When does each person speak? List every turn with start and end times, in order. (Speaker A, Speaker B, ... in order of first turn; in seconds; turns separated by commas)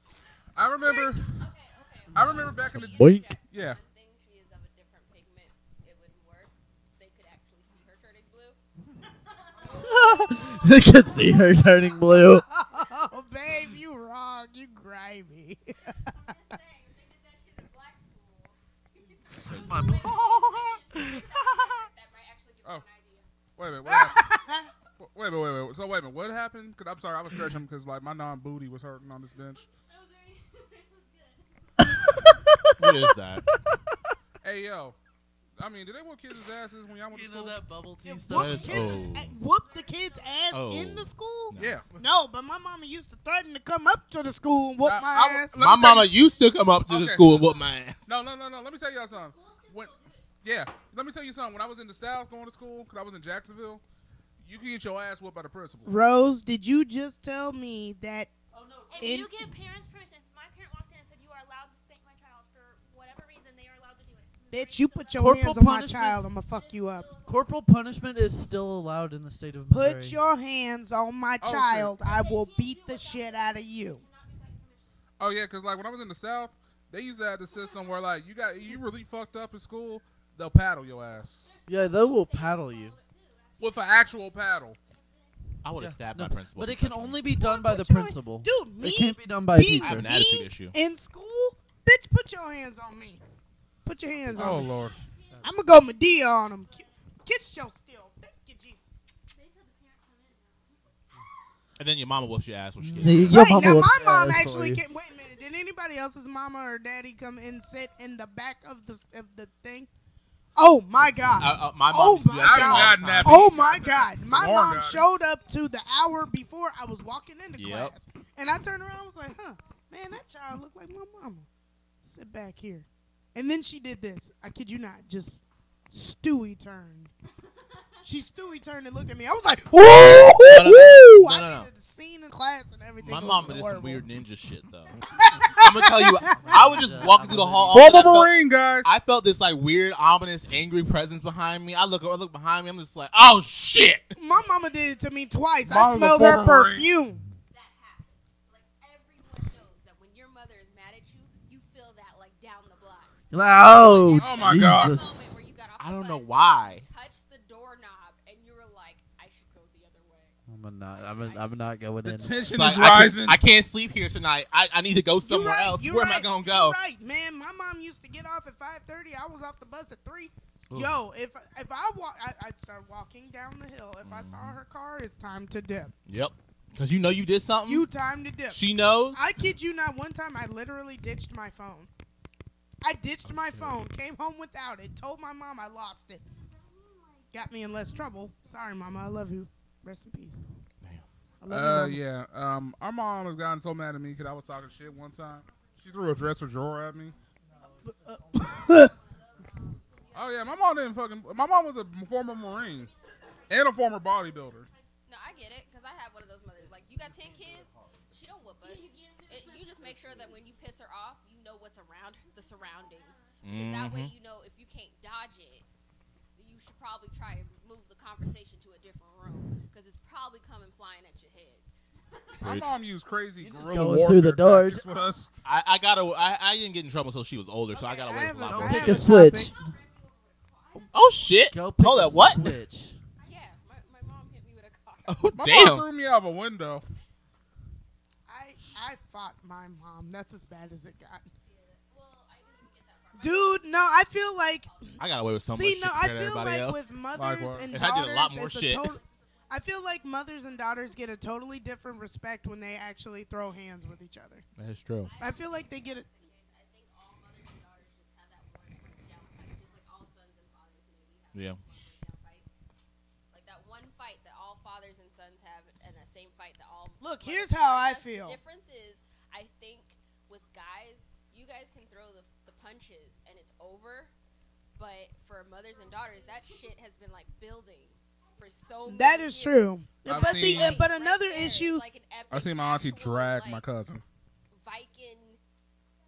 Speaker A: 0.6-1.5, Speaker B: 0.8-8.6, Speaker A: 2.1-3.0, Speaker C: 2.2-3.3, Speaker A: 3.5-3.8, Speaker B: 9.5-11.0, Speaker C: 9.6-12.4, Speaker D: 12.0-16.1, Speaker B: 16.1-23.4, Speaker E: 19.4-19.9, Speaker C: 19.4-21.2, Speaker F: 19.9-20.7, Speaker A: 23.6-24.3, Speaker D: 23.9-24.7, Speaker A: 25.0-29.7, Speaker F: 29.9-31.9, Speaker D: 31.9-33.8, Speaker E: 32.8-33.5, Speaker A: 34.4-35.0, Speaker A: 35.6-37.6, Speaker C: 37.1-39.0, Speaker D: 38.0-45.6, Speaker E: 38.3-39.3, Speaker F: 39.4-40.5, Speaker E: 40.5-42.0, Speaker A: 41.6-41.9, Speaker A: 44.8-46.1, Speaker E: 45.6-48.1, Speaker A: 46.9-47.5, Speaker F: 47.3-47.7, Speaker A: 48.1-53.8, Speaker F: 49.1-50.3, Speaker A: 54.4-55.9, Speaker D: 55.9-58.3, Speaker C: 58.6-59.1, Speaker F: 58.9-65.4, Speaker D: 59.0-59.3, Speaker D: 64.5-67.1, Speaker C: 65.2-66.2, Speaker F: 66.5-67.5, Speaker C: 67.3-70.2, Speaker D: 69.7-74.0, Speaker A: 71.4-72.0, Speaker F: 72.0-75.0, Speaker A: 75.2-81.5, Speaker F: 77.5-77.9, Speaker F: 81.4-84.2, Speaker C: 81.7-83.0, Speaker A: 83.6-84.8, Speaker F: 84.9-85.4, Speaker E: 85.6-87.2, Speaker C: 85.8-90.1, Speaker D: 87.4-93.2, Speaker E: 89.8-90.8, Speaker D: 93.8-94.7, Speaker A: 94.3-95.0, Speaker C: 94.3-94.7, Speaker F: 94.5-97.0, Speaker D: 95.4-98.9, Speaker F: 99.3-100.8, Speaker E: 101.8-103.7, Speaker A: 102.8-103.2, Speaker C: 102.9-104.8, Speaker D: 103.3-109.9, Speaker D: 110.6-121.5, Speaker E: 111.3-113.8, Speaker A: 112.3-115.1, Speaker E: 117.6-117.9, Speaker D: 122.0-127.1, Speaker D: 128.0-134.1, Speaker A: 130.0-131.0, Speaker E: 130.1-131.7, Speaker E: 133.0-135.0, Speaker D: 135.1-136.7, Speaker E: 135.5-144.2, Speaker C: 136.3-137.9, Speaker A: 137.7-138.9, Speaker D: 144.2-147.2, Speaker B: 144.3-145.3, Speaker A: 145.6-146.9, Speaker C: 146.1-146.6, Speaker B: 147.5-160.4, Speaker C: 153.3-155.4, Speaker A: 154.2-155.0, Speaker E: 155.8-156.9, Speaker C: 160.5-162.4, Speaker B: 160.9-163.0, Speaker A: 162.1-163.4, Speaker E: 162.5-166.8, Speaker D: 165.2-175.9, Speaker E: 174.0-174.6, Speaker E: 176.1-177.9, Speaker D: 177.7-181.9, Speaker E: 178.5-179.3, Speaker D: 182.8-186.2, Speaker E: 183.2-183.8, Speaker F: 186.3-188.8, Speaker D: 187.3-190.4, Speaker D: 191.4-192.0, Speaker A: 191.5-197.2, Speaker F: 195.2-196.3, Speaker F: 197.1-197.7, Speaker D: 197.9-198.9, Speaker B: 198.7-200.9, Speaker A: 200.1-202.9, Speaker F: 202.5-205.7, Speaker A: 203.5-204.7, Speaker B: 205.1-215.7, Speaker C: 207.1-207.8, Speaker F: 208.6-210.3, Speaker F: 212.3-213.4, Speaker E: 213.4-214.1, Speaker B: 216.4-222.6, Speaker E: 222.4-222.8, Speaker A: 222.4-225.3, Speaker C: 223.4-224.8, Speaker E: 225.4-229.2, Speaker D: 227.7-229.5, Speaker C: 228.4-229.7, Speaker B: 229.1-231.5, Speaker E: 230.9-232.5, Speaker C: 231.5-233.0, Speaker B: 233.2-235.3, Speaker E: 235.1-235.9, Speaker A: 235.3-236.8, Speaker D: 238.3-241.3, Speaker B: 241.4-245.1, Speaker D: 243.2-244.7, Speaker E: 245.0-246.9, Speaker D: 245.5-254.5, Speaker A: 247.1-247.7, Speaker E: 247.7-248.9, Speaker E: 254.6-255.1, Speaker B: 255.0-262.5, Speaker D: 255.2-256.1, Speaker E: 261.3-261.6, Speaker B: 263.3-274.1, Speaker D: 267.0-268.4, Speaker B: 274.8-283.7, Speaker F: 275.8-276.6, Speaker D: 278.8-281.8, Speaker A: 280.0-280.9, Speaker A: 282.3-284.0, Speaker B: 284.5-285.4